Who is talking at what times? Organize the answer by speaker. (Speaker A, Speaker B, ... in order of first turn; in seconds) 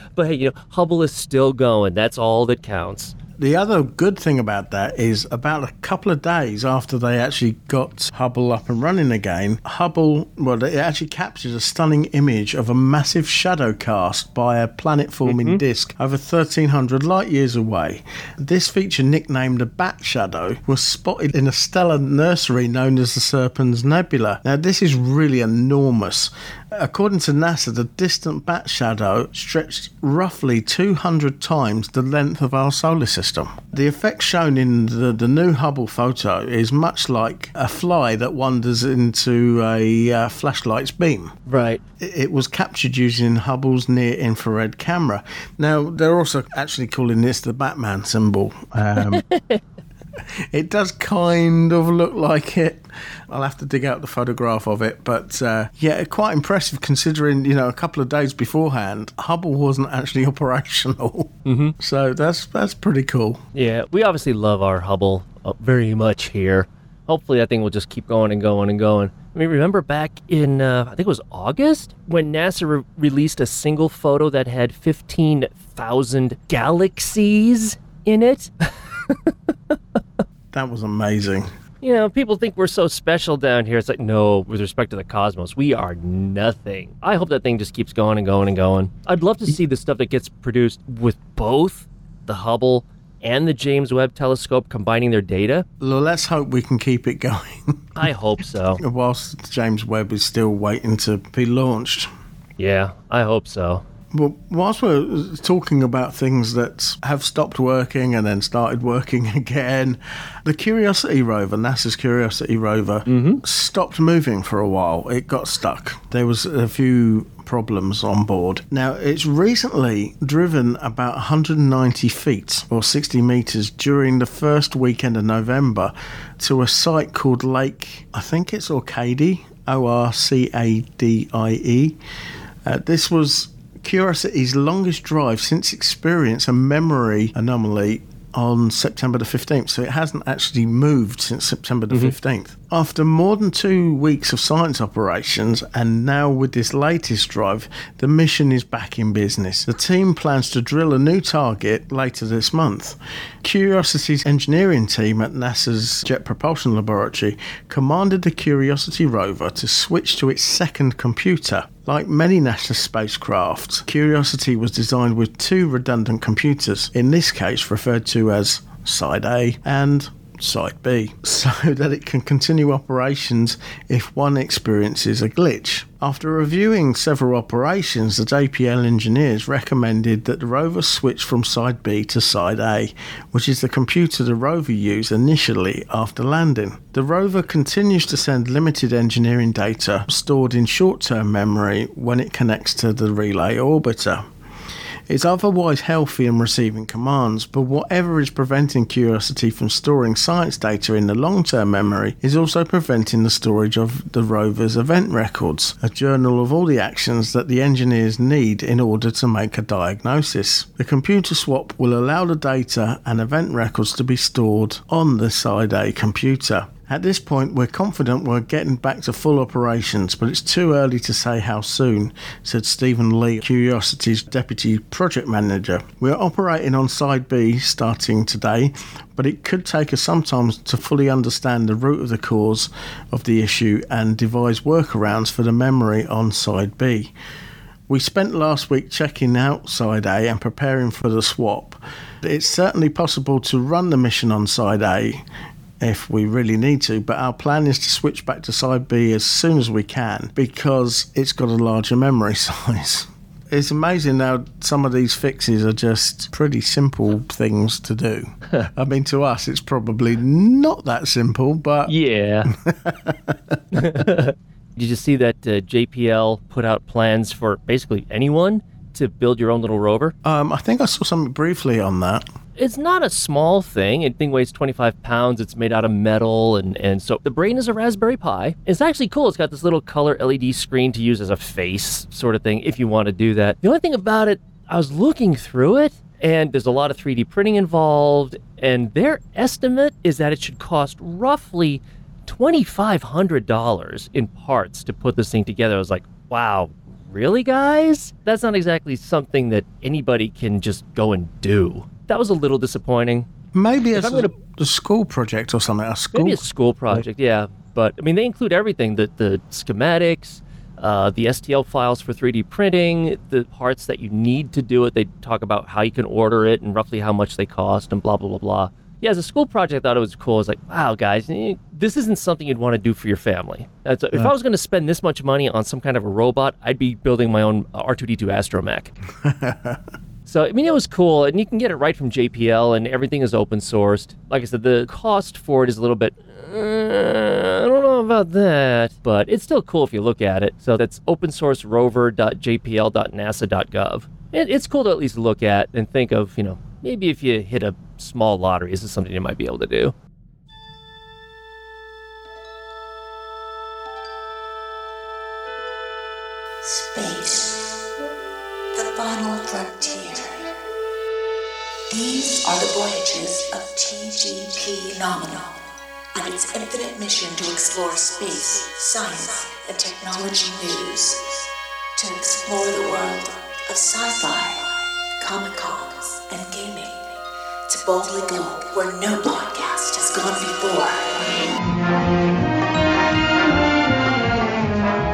Speaker A: 0.1-3.1, 15.2-15.6, 41.5-41.8, 49.0-49.6, 61.4-61.7, 63.5-78.5, 81.8-95.7, 98.0-98.8, 102.6-103.8, 113.1-113.4, 141.9-142.1, 261.9-262.5, 263.7-270.1, 272.6-303.3, 303.9-304.3, 306.1-328.9, 330.2-349.9
Speaker B: 3.4-41.3, 42.0-49.2, 50.5-63.4, 80.5-81.5, 95.8-98.1, 98.8-102.1, 104.1-132.0, 132.6-194.2, 195.1-237.1, 237.9-245.2, 245.8-263.6, 270.2-272.3, 303.5-307.0, 329.2-329.8
Speaker C: 356.6-357.6, 358.7-360.4, 361.9-365.6, 366.1-377.1, 377.7-381.3